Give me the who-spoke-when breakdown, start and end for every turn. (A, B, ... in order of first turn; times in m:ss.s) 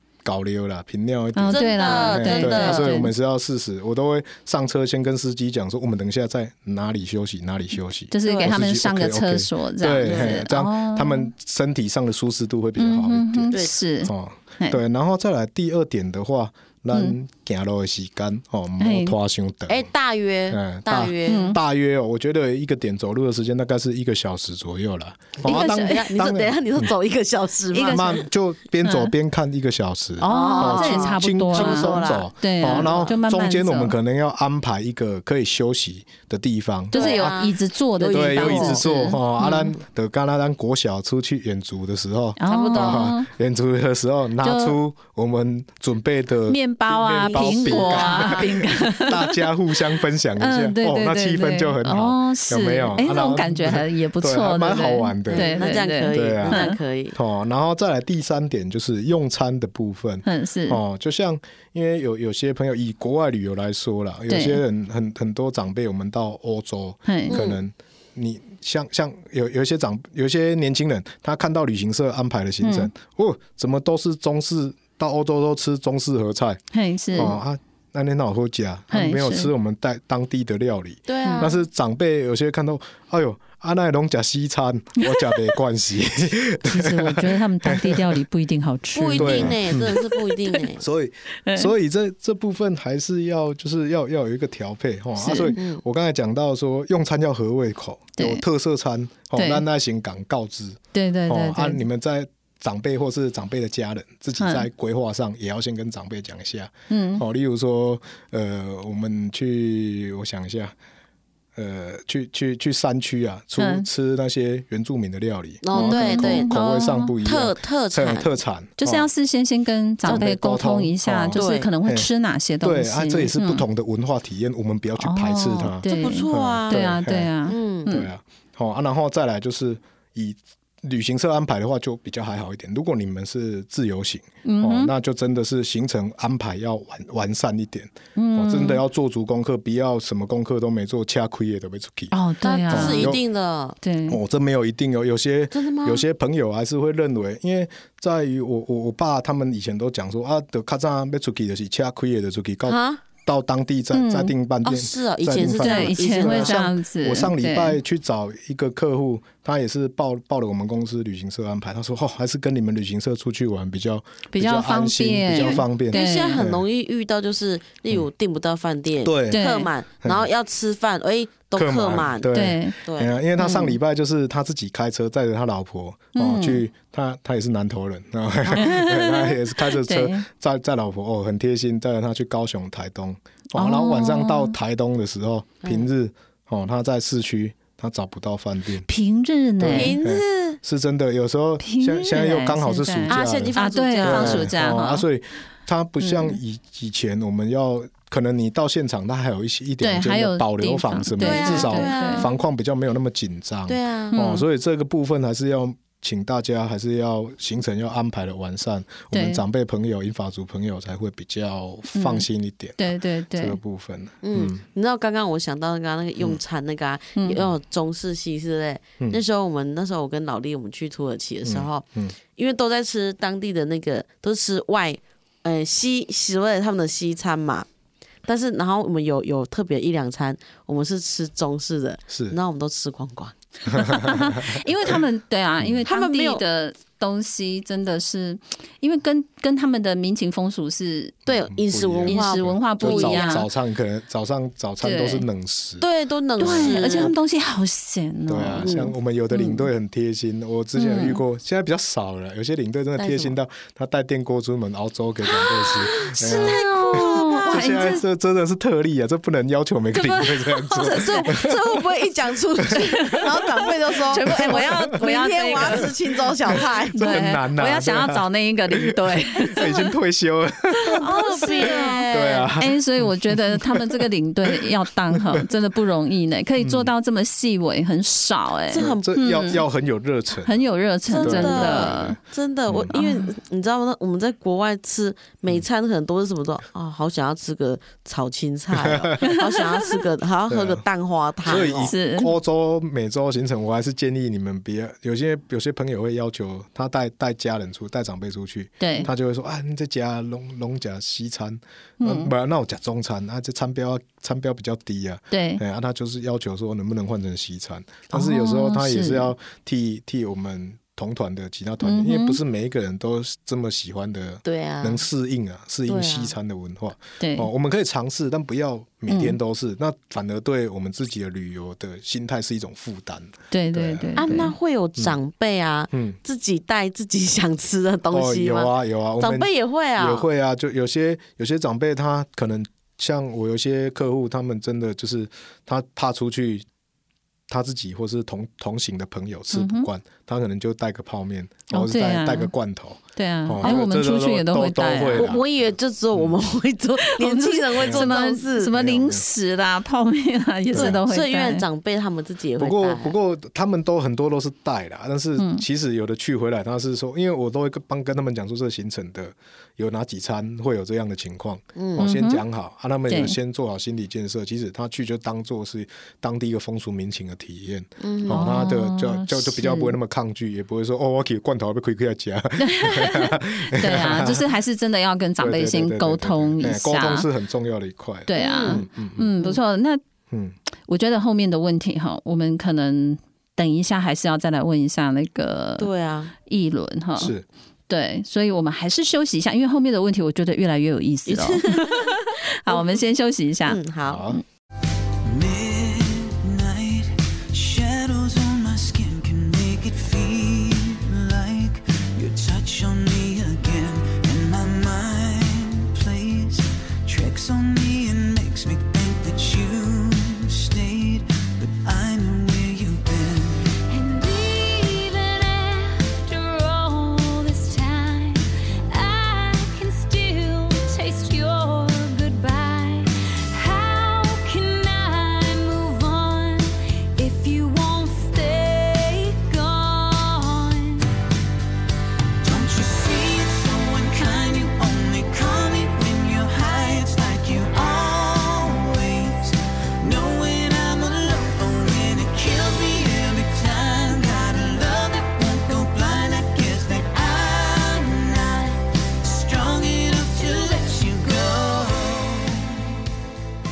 0:00.2-0:19.9 A
0:01.3-0:03.1 B
0:01.5-0:02.9 C
0:08.1-0:11.3 B
0:08.2-0:08.5 C
0:10.0-0:10.4 C
0:12.8-0:14.8 B
0:18.8-0:19.1 B
0:19.7-0:21.5 C
0:20.5-0:26.9 A
0:21.3-0:21.6 B
0:25.4-0:28.2 C
0:25.4-0:26.0 B
0:27.7-0:28.2 B
0:27.7-0:37.4 A
0:28.8-0:29.1 B
0:30.2-0:33.9 B
0:30.2-0:33.1 C
0:36.9-0:39.7 B
0:36.9-0:39.1 C
0:38.1-1:16.6 A
0:42.4-0:43.3 B
0:42.5-0:43.1 C
0:44.4-0:44.8 B
0:46.5-0:49.4 B
0:47.2-0:48.5 C
0:50.4-0:56.8 B
0:55.3-0:57.2 C
1:00.2-1:00.8 B
1:04.3-1:04.6 B
1:07.1-1:07.4 B
1:07.3-1:07.6 C
1:12.6-1:12.9 B
1:16.7-1:17.3 B
1:17.1-1:28.1 A
1:18.9-1:19.5 B
1:21.1-1:21.6 C
1:21.2-1:21.5 B
1:26.6-1:30.6 B
1:28.9-1:30.8 C
1:29.1-1:30.0 A
1:30.8-1:50.7 A
1:31.4-1:31.7 B
1:35.2-1:35.5 B
1:35.5-1:35.8 C
1:38.2-1:38.4 B
1:39.3-1:39.6 B
1:40.9-1:41.8 B
1:44.4-1:44.6 B
1:46.9-1:47.2 B
1:51.5-1:59.1 A
1:53.6-1:53.8 B
1:55.6-1:56.5 C
1:55.7-1:57.1 B
1:57.2-1:58.3 C
1:58.8-2:03.6 B
2:00.0-2:02.1 A
2:01.3-2:01.7 C
2:02.6-2:07.3 A
2:05.0-2:08.1 B
2:05.8-2:06.8 C
2:07.5-2:07.9 C
2:07.8-2:22.1 A
2:14.4-2:14.9 B
2:18.2-2:18.8 B
2:22.1-2:23.1 B
2:22.4-2:23.8 C
2:22.7-2:23.2 A
2:23.8-2:24.2 B
2:24.1-2:46.6 A
2:25.5-2:26.0 C
2:32.7-2:33.0 C
2:33.9-2:34.3 B
2:34.6-2:36.6 C
2:35.4-2:37.8 B
2:44.3-2:46.4 B
2:45.5-2:53.1 C
2:49.0-2:49.5 A
2:49.3-2:49.7 B
2:50.0-2:50.3 A
2:51.6-3:08.9 A
2:52.3-2:52.8 B
2:53.4-2:53.7 B
2:56.1-2:56.6 B
2:58.5-3:00.2 B
3:03.5-3:04.5 B
3:05.6-3:05.9 C
3:08.8-3:09.9 B
3:09.6-3:34.6 A
3:09.7-3:10.6 C
3:11.6-3:15.0 B
3:13.1-3:14.5 C
3:16.0-3:16.4 B
3:19.8-3:22.3 B
3:21.2-3:22.4 C
3:23.7-3:24.2 C
3:24.1-3:24.4 B
3:29.1-3:29.4 B
3:31.9-3:32.2 B
3:32.8-3:33.6 B
3:34.2-3:47.7 C
3:37.2-3:37.4 B
3:41.4-3:42.2 A
3:48.2-3:53.3 C
3:52.1-3:52.4 A
3:53.7-4:01.1 B
3:53.7-3:54.6 A
3:55.9-3:56.4 C
4:01.3-4:03.4 C
4:01.3-4:05.8 A
4:02.1-4:03.4 B
4:04.8-4:05.2 B
4:05.8-4:07.1 C
4:06.4-4:07.1 A
4:06.4-4:08.7 B
4:08.3-4:21.6 A
4:08.6-4:08.9 C
4:09.3-4:09.7 B
4:10.8-4:11.2 B
4:13.0-4:13.4 C
4:15.4-4:17.8 C
4:16.1-4:18.0 B
4:20.0-4:21.4 B
4:20.8-4:27.2 C
4:22.6-4:23.0 A
4:22.7-4:23.4 B
4:24.1-4:25.9 B
4:24.1-4:24.9 A
4:26.5-4:29.8 B
4:26.6-4:34.0 A
4:30.9-4:39.6 B
4:31.0-4:32.5 C
4:36.6-4:36.9 A
4:38.7-4:39.1 C
4:38.8-4:40.6 A
4:40.4-4:42.2 B
4:41.1-4:51.9 C
4:41.2-4:42.2 A
4:42.7-4:42.9 A
4:42.9-4:43.3 B
4:48.8-4:49.2 A
4:49.2-4:49.8 B
4:50.5-4:50.8 A
4:51.4-5:24.3 A
4:51.8-4:52.3 B
4:58.8-4:59.1 B
5:02.0-5:02.3 B
5:05.3-5:05.6 B
5:08.1-5:09.3 B
5:11.8-5:12.4 B
5:14.4-5:15.0 C
5:15.9-5:16.3 C
5:17.2-5:17.5 B
5:19.1-5:19.4 B
5:23.5-5:24.5 B
5:24.2-5:30.3 C
5:25.9-5:26.2 A
5:28.1-5:36.6 A
5:37.5-5:45.4 A
5:39.5-5:39.9 B
5:41.7-5:42.5 B
5:43.2-5:45.3 B
5:45.1-5:48.7 C
5:47.0-5:51.6 B
5:47.8-5:49.2 A
5:50.7-5:51.0 A
5:50.7-5:53.1 C
5:52.6-6:14.4 A
5:55.4-5:55.6 B
6:01.8-6:02.0 C
6:02.0-6:02.4 B
6:03.1-6:03.3 B
6:08.0-6:08.5 C
6:08.3-6:10.0 B
6:12.6-6:17.3 B
6:15.4-6:19.3 A
6:18.3-6:20.0 B
6:18.3-6:18.8 C
6:20.9-6:25.9 B
6:25.8-6:26.3 C
6:26.5-6:27.3 B
6:27.2-6:27.4 A
6:27.9-6:33.8 B
6:31.3-6:33.0 C
6:33.7-6:34.2 C
6:34.1-6:34.4 A
6:35.2-6:53.8 D
6:53.9-7:11.0 E
7:12.4-7:32.9 D